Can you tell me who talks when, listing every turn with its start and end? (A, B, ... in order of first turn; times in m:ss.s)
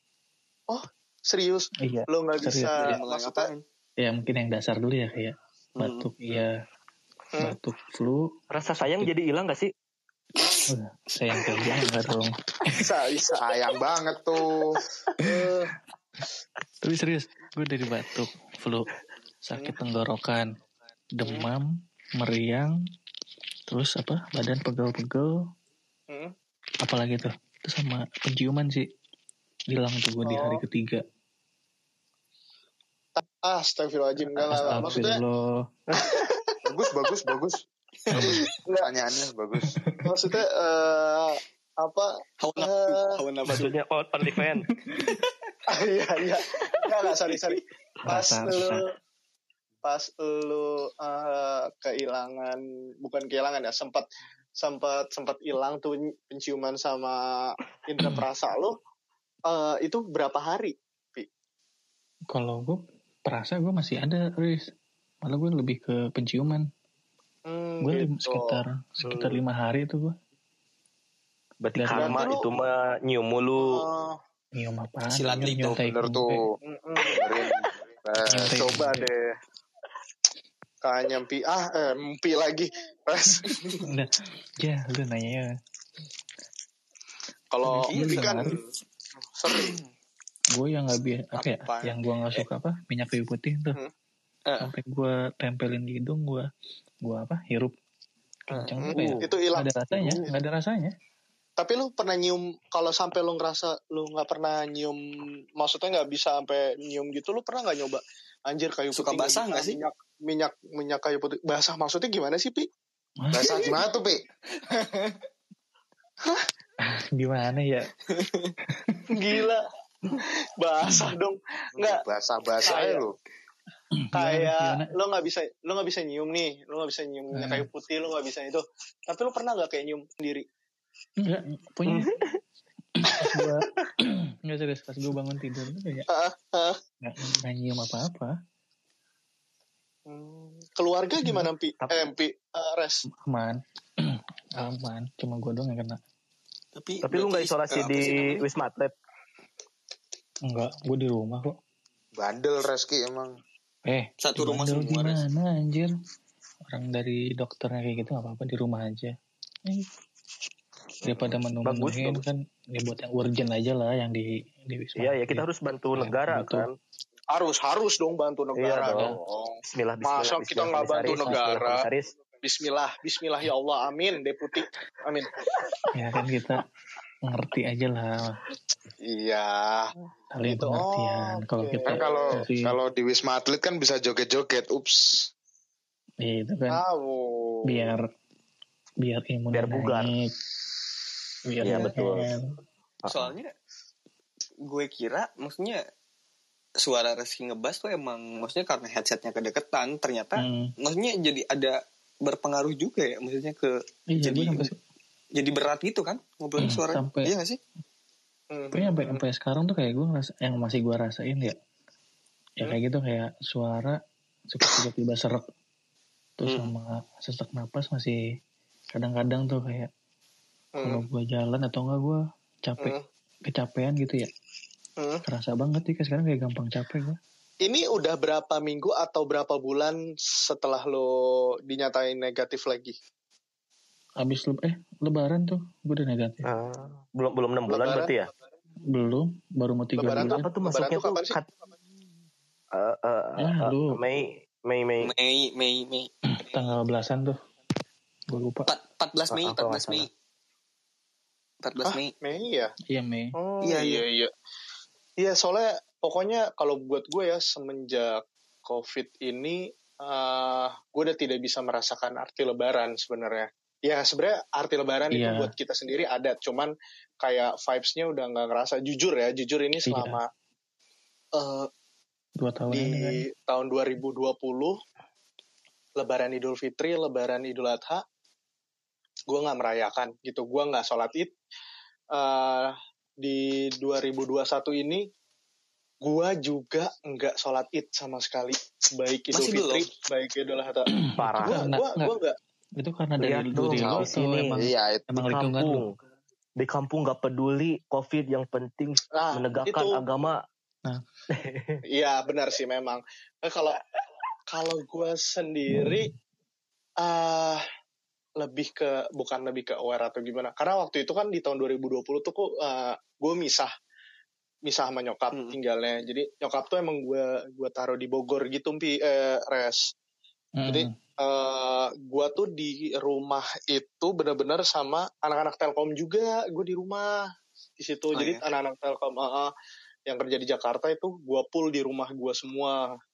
0:00.7-0:03.5 A
0:01.8-0:03.0 B
0:02.8-0:03.6 C
0:04.0-0:06.5 B
0:05.8-0:06.1 C
0:07.4-0:08.2 B
0:08.5-0:09.7 D
0:08.9-0:09.1 B
0:10.7-0:12.8 B
0:12.7-0:13.5 A
0:13.3-0:14.8 E
0:15.2-0:15.7 A
0:16.8-0:18.9 B
0:19.4-0:20.4 B
0:21.1-0:21.7 B
0:22.2-0:22.7 B
0:23.7-0:25.3 B
0:26.8-0:28.9 B
0:29.7-0:31.0 B
0:30.2-0:30.6 A
0:33.2-0:35.2 A
0:34.3-0:35.7 B
0:36.0-0:36.6 A
0:36.6-0:37.6 E
0:38.1-0:38.9 A
0:38.8-0:39.7 E
0:39.8-0:40.1 B
0:40.0-0:43.1 A
0:42.4-0:43.7 C
0:43.5-0:44.7 D
0:44.3-0:45.2 B
0:45.0-0:45.2 C
0:45.7-0:48.9 A
0:46.8-0:47.6 C
0:48.0-0:48.9 B
0:49.8-0:54.1 A
0:54.6-0:58.8 A
0:59.5-1:01.3 A
1:02.3-1:04.7 B
1:05.2-1:06.7 B
1:07.5-1:08.6 A
1:07.8-1:10.2 B
1:09.0-1:09.4 D
1:11.6-1:13.8 D
1:11.8-1:12.3 B
1:11.9-1:12.5 A
1:13.6-1:14.2 A
1:14.6-1:16.4 B
1:15.1-1:15.8 C
1:15.8-1:16.6 E
1:16.6-1:17.2 A
1:17.2-1:18.7 E
1:18.3-1:19.1 B
1:18.6-1:19.3 A
1:20.8-1:23.9 A
1:23.8-1:25.5 B
1:27.5-1:28.7 A
1:27.7-1:28.6 B
1:27.9-1:28.6 C
1:29.4-1:29.8 A
1:29.5-1:29.9 C
1:30.5-1:33.8 B
1:31.3-1:32.4 C
1:34.5-1:34.7 C
1:34.6-1:36.5 B
1:37.0-1:37.7 B
1:38.5-1:40.9 B
1:38.5-1:39.0 C
1:38.8-1:40.4 A
1:41.6-1:45.0 A
1:45.6-1:52.7 A
1:48.9-1:49.8 C
1:53.2-1:53.8 B
1:53.3-1:54.2 E
1:54.7-1:55.2 C
1:56.8-1:57.9 B
1:58.1-1:58.5 C
1:58.7-1:59.1 B
1:59.1-2:02.0 A
2:00.9-2:01.1 B
2:01.8-2:03.2 E
2:02.6-2:03.0 A
2:04.0-2:04.9 B
2:04.1-2:10.5 A
2:07.4-2:07.7 B
2:11.2-2:12.1 B
2:13.0-2:16.1 B
2:16.1-2:16.8 A
2:17.0-2:18.3 B
2:20.1-2:23.0 A
2:23.1-2:26.0 B
2:26.8-2:28.4 C
2:27.0-2:28.9 D
2:30.5-2:31.6 B
2:32.2-2:33.4 E
2:33.9-2:35.9 B
2:34.2-2:35.2 C
2:36.7-2:39.2 B
2:41.0-2:46.7 B
2:41.1-2:42.2 D
2:45.0-2:46.7 D
2:47.3-2:51.8 A
2:48.6-2:49.1 D
2:48.9-2:49.2 B
2:49.7-2:52.1 D
2:51.1-2:51.4 B
2:52.4-2:55.4 A
2:55.9-2:56.6 B
2:57.3-2:58.4 B
2:59.1-3:02.3 A
3:00.3-3:02.8 B
3:01.9-3:05.2 E
3:06.2-3:06.8 B
3:06.7-3:08.0 A
3:07.7-3:08.0 B
3:09.0-3:10.3 B
3:09.5-3:10.1 D
3:11.5-3:12.5 B
3:11.6-3:12.2 D
3:11.7-3:12.2 C
3:13.0-3:13.3 D
3:13.1-3:13.5 C
3:14.7-3:15.8 C
3:16.8-3:24.7 C
3:20.4-3:20.7 B
3:24.1-3:24.8 B
3:25.4-3:27.6 C
3:26.6-3:27.3 B
3:28.5-3:29.2 A
3:28.7-3:31.6 B
3:32.6-3:34.0 B
3:34.5-3:35.5 B
3:36.4-3:38.2 B
3:36.5-3:36.7 C
3:38.9-3:39.9 B
3:40.8-3:41.1 A
3:40.8-3:43.0 B
3:43.5-3:44.3 B
3:45.3-3:47.2 B
3:47.6-3:51.1 A
3:51.7-3:53.0 A
3:54.2-3:56.5 B
3:56.4-3:58.3 D
3:57.7-3:58.1 A
3:58.9-4:00.5 B
4:00.0-4:01.4 A
4:00.2-4:01.5 D
4:02.7-4:05.1 D
4:03.4-4:04.0 B
4:05.0-4:06.1 C
4:06.3-4:07.4 B
4:08.3-4:08.7 B
4:08.7-4:10.1 C
4:09.3-4:10.1 D
4:11.6-4:12.1 C
4:11.9-4:12.7 A
4:12.9-4:13.4 B
4:13.4-4:14.3 A
4:13.6-4:14.0 C
4:15.2-4:26.7 A
4:25.1-4:25.5 B
4:27.2-4:30.3 A
4:29.9-4:30.2 B
4:31.4-4:31.7 A
4:32.4-4:33.2 B
4:32.7-4:34.8 A
4:36.0-4:38.0 A
4:39.3-4:41.3 A
4:42.1-4:45.1 A
4:46.0-4:50.9 A
4:49.3-4:49.8 C
4:51.1-4:52.1 B
4:51.2-4:51.7 D
4:51.4-4:52.4 A
4:52.8-4:55.8 B
4:53.2-4:56.0 D
4:54.6-4:55.1 E
4:56.6-5:00.4 D
4:59.1-5:00.1 A
5:01.3-5:01.8 D
5:01.9-5:03.8 A
5:04.5-5:06.1 A
5:07.0-5:07.6 A
5:08.4-5:13.7 A
5:14.7-5:19.9 A
5:20.6-5:20.9 B
5:20.7-5:27.2 A
5:27.8-5:29.5 A
5:28.1-5:28.4 C
5:30.1-5:33.0 A